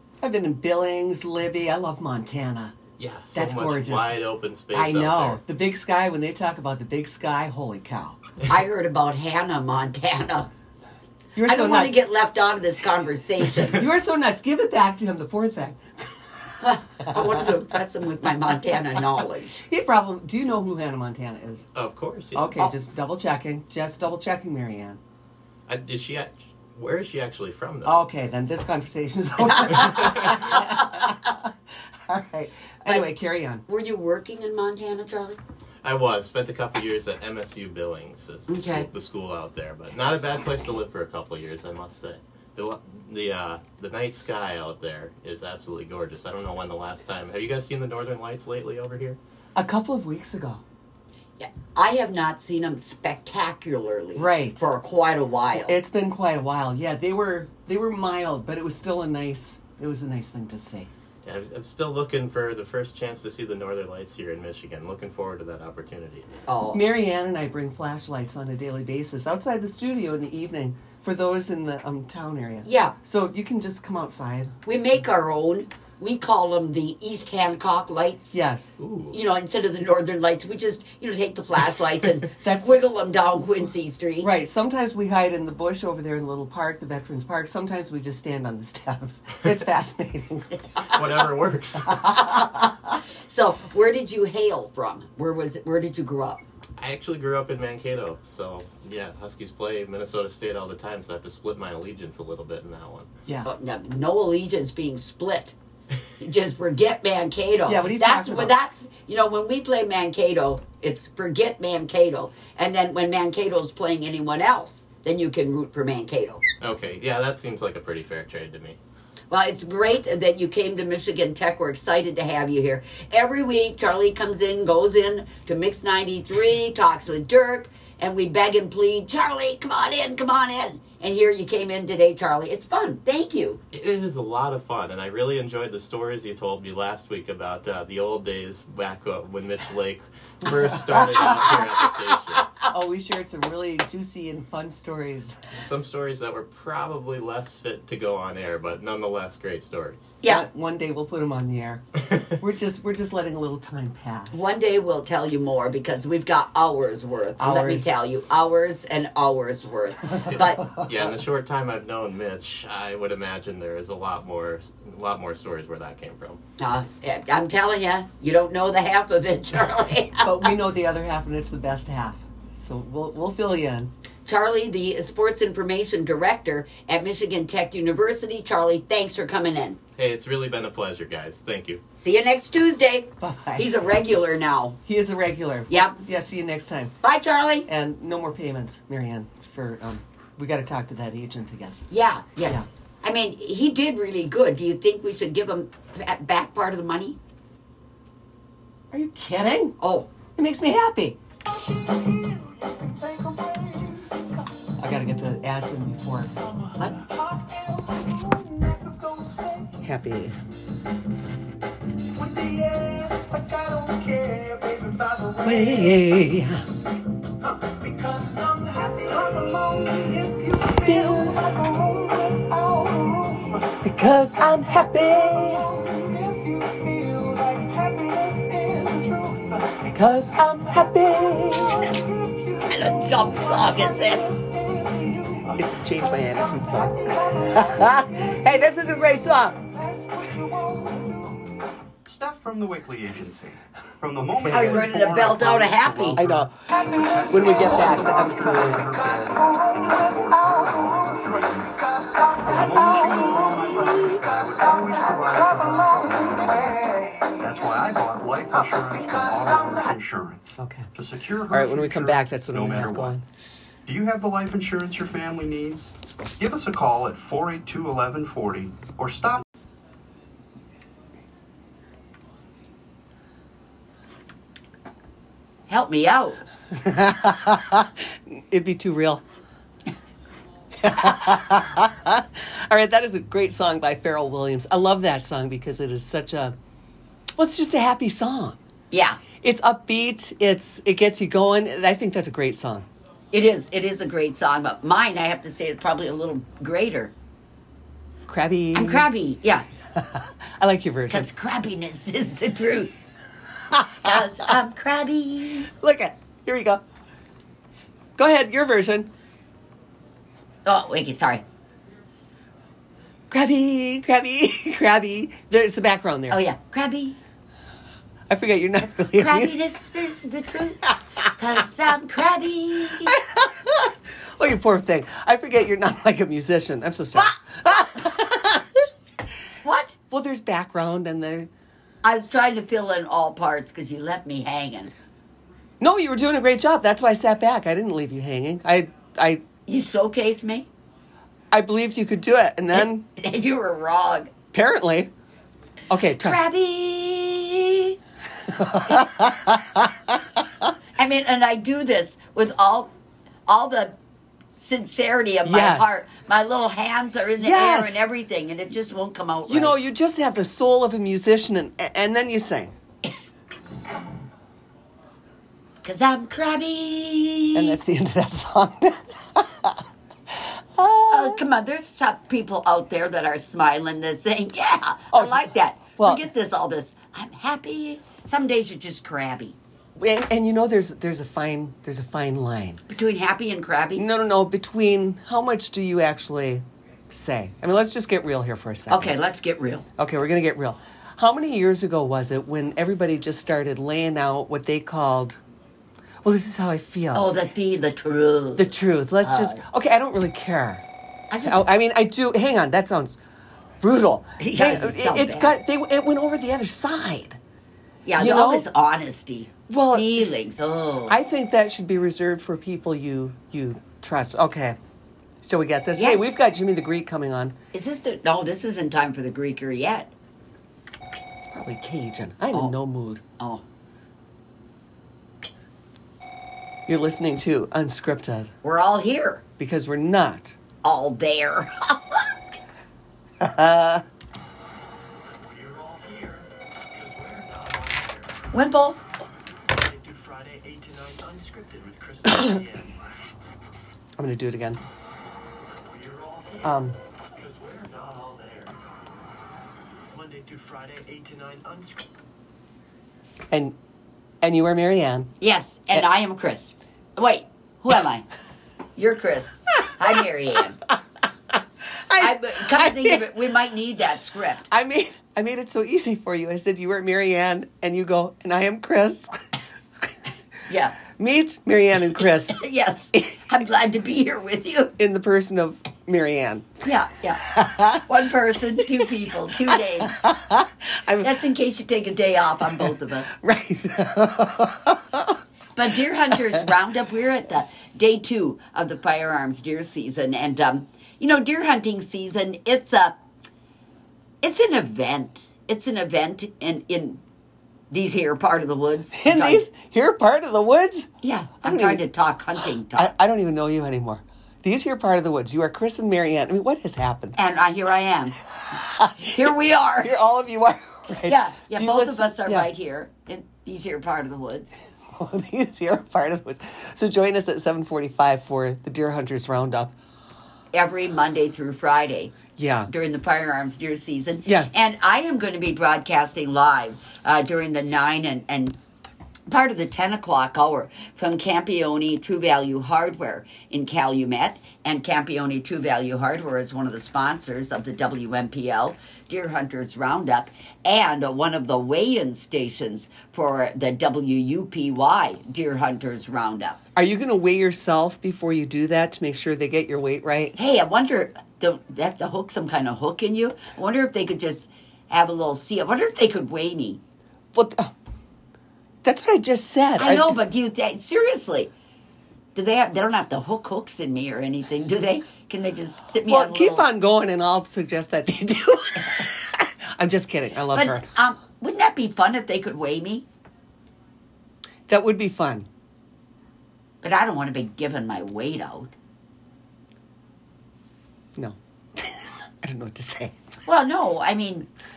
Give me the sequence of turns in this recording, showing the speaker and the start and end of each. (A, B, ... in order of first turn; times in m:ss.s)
0:00.2-0:02.7 A
0:03.0-0:05.4 B
0:03.3-0:04.2 A
0:04.7-0:08.2 A
0:08.4-0:10.5 C
0:11.3-0:12.0 A
0:11.4-0:13.8 C
0:13.7-0:15.8 A
0:16.6-0:19.6 C
0:19.6-0:21.6 A
0:21.7-0:22.6 B
0:22.3-0:25.0 A
0:25.7-0:28.0 B
0:27.8-0:31.5 A
0:29.8-0:31.2 C
0:32.1-0:33.6 A
0:33.7-0:35.4 C
0:35.8-0:49.2 B
0:38.5-0:38.9 C
0:49.6-0:50.6 A
0:51.4-0:55.8 C
0:54.1-0:54.6 A
0:55.5-1:00.9 A
1:01.2-1:06.2 B
1:06.5-1:06.8 C
1:06.7-1:14.5 A
1:12.6-1:12.9 C
1:14.6-1:18.4 C
1:18.3-1:18.7 A
1:18.8-1:19.2 B
1:19.1-1:24.3 C
1:22.4-1:22.8 A
1:24.2-1:30.6 A
1:30.8-1:32.2 B
1:31.9-1:36.4 C
1:36.8-1:43.1 B
1:43.4-1:45.5 C
1:46.2-1:56.4 C
1:47.7-1:48.5 A
1:56.6-1:58.8 B
1:59.3-2:13.6 C
2:13.7-2:22.5 B
2:20.5-2:21.0 A
2:21.1-2:21.8 C
2:22.7-2:25.4 A
2:25.5-2:30.2 B
2:30.2-2:31.8 A
2:32.4-2:34.5 A
2:34.3-2:40.6 C
2:37.4-2:37.9 A
2:40.3-2:46.4 B
2:46.6-2:50.5 C
2:50.2-2:53.9 A
2:54.2-2:59.8 C
3:00.0-3:01.8 B
3:02.0-3:04.8 C
3:03.2-3:03.7 A
3:04.8-3:06.9 A
3:05.7-3:06.0 C
3:07.0-3:07.7 C
3:07.6-3:11.8 A
3:11.9-3:17.2 C
3:18.9-3:19.7 A
3:19.8-3:20.1 C
3:20.4-3:21.2 A
3:21.5-3:24.5 D
3:24.8-3:26.3 A
3:26.4-3:29.8 D
3:29.8-3:30.4 A
3:32.1-3:36.3 D
3:35.4-3:36.7 A
3:37.6-4:01.4 D
3:40.8-3:41.4 A
3:43.8-3:45.7 A
3:49.9-3:51.9 A
3:52.6-3:54.4 C
3:55.5-3:59.6 A
4:02.0-4:11.8 E
4:04.5-4:06.2 C
4:06.2-4:06.6 A
4:07.3-4:08.8 A
4:07.3-4:08.5 D
4:12.4-4:16.8 E
4:17.4-4:23.2 E
4:20.6-4:20.9 A
4:21.5-4:23.2 A
4:23.8-4:29.4 E
4:35.7-4:36.4 C
4:36.7-4:39.2 A
4:40.8-4:46.5 A
4:47.4-4:48.6 A
4:48.9-4:49.2 C
4:49.4-4:52.9 A
4:53.3-4:57.1 C
4:58.3-4:59.1 A
4:58.7-4:59.6 C
4:59.9-5:01.3 A
5:01.1-5:02.9 C
5:03.7-5:04.1 A
5:04.0-5:05.7 C
5:05.8-5:06.8 A
5:08.2-5:09.1 A
5:10.6-5:11.4 C
5:13.3-5:16.4 A
5:16.3-5:17.2 C
5:18.3-5:19.5 A
5:19.1-5:23.2 C
5:23.1-5:28.9 A
5:29.6-5:29.9 C
5:30.1-5:31.5 A
5:32.0-5:34.9 C
5:35.8-5:39.4 A
5:39.7-5:40.7 C
5:41.5-5:43.0 A
5:42.7-5:44.3 C
5:44.5-5:45.1 A
5:45.9-5:46.4 A
5:46.2-5:48.0 C
5:48.4-5:49.9 A
5:51.0-5:52.9 C
5:53.5-5:54.0 C
5:54.6-5:59.8 C
5:55.4-5:56.0 A
5:57.4-5:58.0 A
5:59.5-6:02.7 A
6:05.8-6:07.8 C
6:07.5-6:09.8 A
6:10.3-6:11.4 A
6:11.1-6:19.6 C
6:15.1-6:15.4 A
6:16.0-6:16.2 A
6:20.0-6:22.8 A
6:22.9-6:24.0 C
6:24.0-6:29.2 A
6:28.9-6:29.8 C
6:30.0-6:35.4 A
6:36.2-6:37.3 A
6:37.1-6:39.6 C
6:38.6-6:40.9 A
6:41.3-6:41.6 C
6:41.4-6:43.2 A
6:43.8-6:47.4 A
6:44.4-6:45.6 C
6:48.0-6:51.2 C
6:48.2-6:48.7 A
6:49.7-6:50.2 A
6:51.1-6:54.8 A
6:55.4-6:57.6 A
6:55.9-6:56.2 C
6:57.7-7:00.1 C
7:01.4-7:03.2 A
7:06.9-7:08.5 A
7:08.6-7:09.4 C
7:09.6-7:10.6 A
7:10.8-7:12.3 C
7:13.4-7:14.0 A
7:15.2-7:18.4 F
7:18.5-7:19.0 C
7:19.7-7:23.0 F
7:24.2-7:24.8 A
7:25.6-7:28.8 F
7:26.6-7:27.0 A
7:30.1-7:32.1 F
7:33.5-7:33.8 A
7:34.4-7:35.3 A
7:35.4-7:38.3 C
7:39.0-7:40.8 C
7:42.0-7:43.2 A
7:42.2-7:44.7 C
7:44.7-7:49.4 A
7:50.7-7:51.0 C
7:51.2-7:52.6 A
7:52.5-7:54.9 C
7:55.0-7:56.7 A
7:56.8-7:57.4 C
7:57.5-7:58.0 A
7:58.0-8:00.2 C
8:00.0-8:01.3 A
8:01.2-8:03.3 C
8:03.4-8:05.4 A
8:05.7-8:13.2 C
8:14.4-8:17.2 C
8:17.9-8:19.6 C
8:19.1-8:21.1 A
8:21.2-8:23.1 C
8:21.6-8:22.0 A
8:22.9-8:27.4 A
8:27.4-8:28.4 C
8:28.7-8:29.5 A
8:29.2-8:30.1 C
8:30.0-8:32.7 A
8:31.2-8:34.8 C
8:35.1-8:39.9 A
8:40.7-8:48.8 C
8:42.6-8:42.9 A
8:49.5-9:06.8 C
9:07.0-9:10.6 A
9:10.5-9:17.0 C
9:17.5-9:17.9 A
9:19.0-9:20.4 A
9:20.0-9:21.7 C
9:22.5-9:26.9 C
9:26.3-9:31.1 A
9:30.7-9:33.2 C
9:34.9-9:35.7 A
9:37.0-9:38.9 C
9:41.4-9:43.4 A
9:43.6-9:44.7 C